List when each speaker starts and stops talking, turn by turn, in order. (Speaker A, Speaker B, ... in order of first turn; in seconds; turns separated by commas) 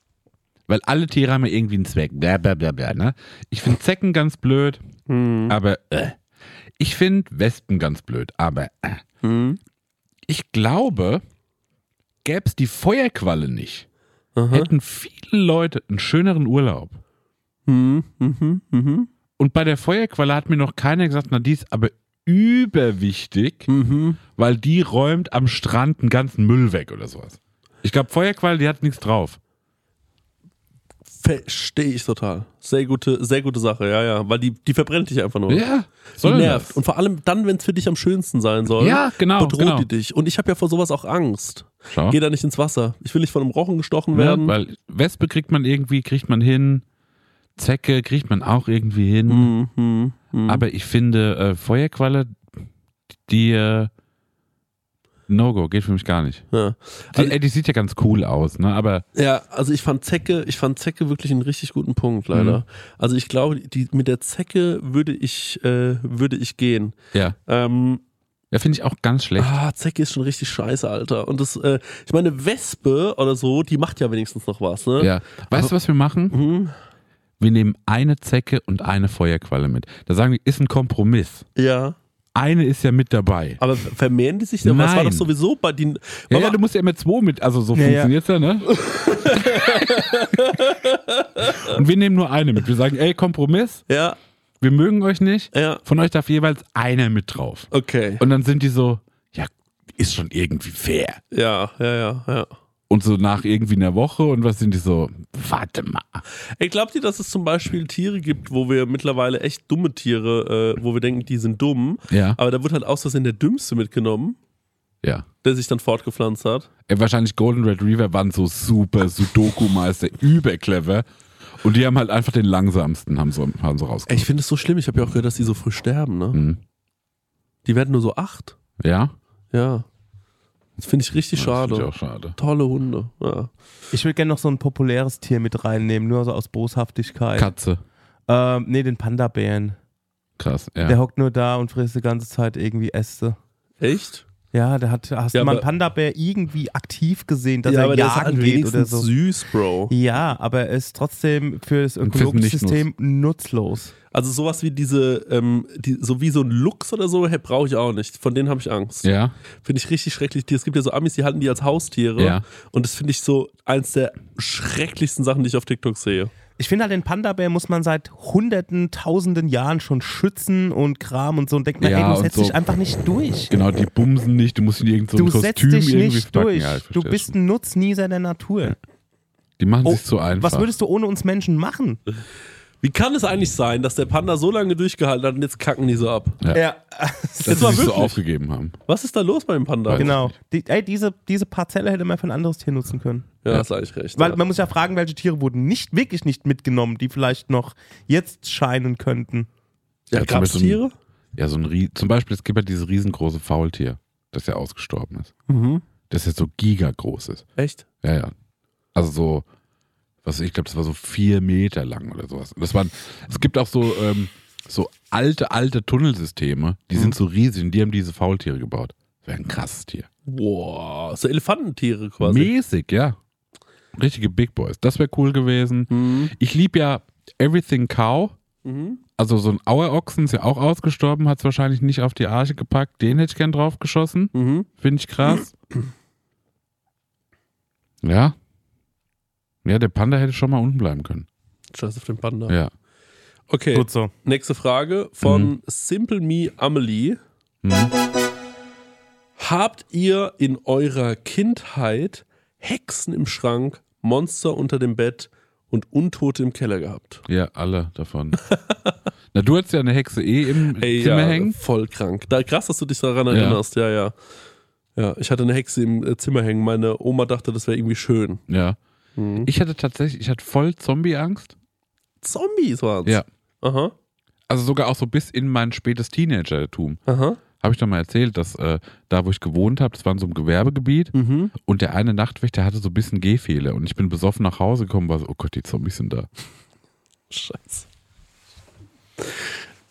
Speaker A: 0.7-4.8, Speaker B: 5.1-5.6, Speaker A: 5.5-6.2, Speaker A: 6.8-9.0, Speaker B: 9.2-9.6, Speaker A: 10.3-11.2, Speaker A: 12.2-13.9, Speaker B: 14.4-14.7, Speaker A: 14.5-17.0, Speaker B: 17.7-19.1, Speaker A: 19.4-23.7, Speaker B: 23.7-24.2, Speaker A: 24.4-29.4, Speaker B: 31.2-35.6, Speaker A: 35.5-36.8, Speaker B: 36.2-44.5, Speaker A: 38.8-39.9, Speaker A: 41.9-42.2, Speaker A: 44.1-46.9, Speaker A: 47.6-49.5, Speaker B: 49.3-50.6, Speaker A: 50.5-52.4, Speaker A: 53.3-53.9, Speaker A: 55.3-56.5, Speaker B: 56.5-57.4, Speaker A: 57.1-59.0, Speaker B: 59.1-68.0, Speaker A: 62.3-62.6, Speaker A: 68.5-69.6, Speaker B: 69.4-75.7, Speaker A: 75.0-76.4, Speaker B: 76.3-76.7, Speaker A: 77.4-81.4, Speaker B: 81.5-82.0, Speaker A: 82.3-83.6, Speaker B: 83.6-86.6, Speaker A: 84.6-85.3, Speaker A: 86.3-88.7, Speaker C: 87.7-88.1, Speaker B: 88.7-91.8, Speaker A: 91.6-93.8, Speaker B: 93.9-94.2, Speaker A: 94.6-101.2, Speaker B: 95.5-95.8, Speaker B: 97.7-98.2, Speaker B: 101.3-102.5, Speaker A: 102.9-106.2, Speaker B: 106.6-114.4, Speaker A: 112.1-112.4, Speaker B: 115.4-116.7, Speaker A: 116.9-121.0, Speaker A: 121.6-124.3, Speaker B: 124.1-126.4, Speaker A: 126.3-126.6, Speaker B: 127.7-128.5, Speaker A: 128.8-129.1, Speaker B: 129.5-129.9, Speaker B: 130.8-133.5, Speaker A: 131.3-132.4, Speaker C: 133.9-137.5, Speaker A: 137.4-137.8, Speaker C: 138.3-139.8, Speaker A: 140.4-140.9, Speaker C: 140.8-143.4, Speaker B: 143.8-144.2, Speaker C: 144.5-149.1, Speaker B: 145.3-145.6, Speaker B: 147.7-149.9, Speaker C: 149.9-153.9, Speaker A: 152.0-152.9, Speaker B: 154.1-159.1, Speaker A: 159.0-159.3, Speaker B: 159.6-166.3, Speaker A: 162.2-162.4, Speaker C: 166.6-173.5, Speaker A: 171.8-172.6, Speaker A: 173.5-177.3, Speaker C: 175.1-178.8, Speaker A: 179.6-180.7, Speaker C: 179.8-182.0, Speaker B: 182.8-186.4, Speaker C: 186.5-187.8, Speaker A: 187.4-188.8, Speaker B: 187.5-188.2, Speaker B: 188.9-190.1, Speaker A: 189.9-190.3, Speaker C: 189.9-193.3, Speaker B: 193.4-194.4, Speaker C: 194.2-199.5, Speaker B: 200.1-200.9, Speaker A: 200.1-200.8, Speaker A: 201.4-205.3, Speaker B: 205.5-205.8, Speaker A: 206.1-207.4, Speaker B: 207.6-207.9, Speaker A: 208.0-208.3, Speaker A: 208.9-209.4, Speaker A: 210.2-220.1, Speaker B: 220.3-222.5, Speaker A: 222.2-223.2, Speaker A: 223.9-228.4, Speaker B: 225.9-226.3, Speaker B: 228.6-229.0, Speaker A: 229.2-235.5, Speaker B: 234.3-234.7, Speaker A: 238.0-238.3, Speaker A: 239.6-241.3, Speaker B: 241.7-242.5, Speaker B: 243.5-247.2, Speaker C: 243.7-244.1, Speaker A: 245.2-245.5, Speaker A: 247.6-247.9, Speaker B: 249.4-257.2, Speaker A: 257.3-258.4, Speaker B: 258.5-258.9, Speaker A: 259.3-261.6, Speaker B: 260.8-264.1, Speaker A: 263.3-263.6, Speaker B: 264.9-268.4, Speaker A: 268.5-268.8, Speaker B: 269.1-269.5, Speaker A: 269.4-271.5, Speaker B: 272.2-273.9, Speaker A: 274.5-277.0, Speaker B: 277.1-277.4, Speaker A: 277.6-286.3, Speaker B: 281.1-281.5, Speaker B: 287.3-287.9, Speaker B: 289.2-289.4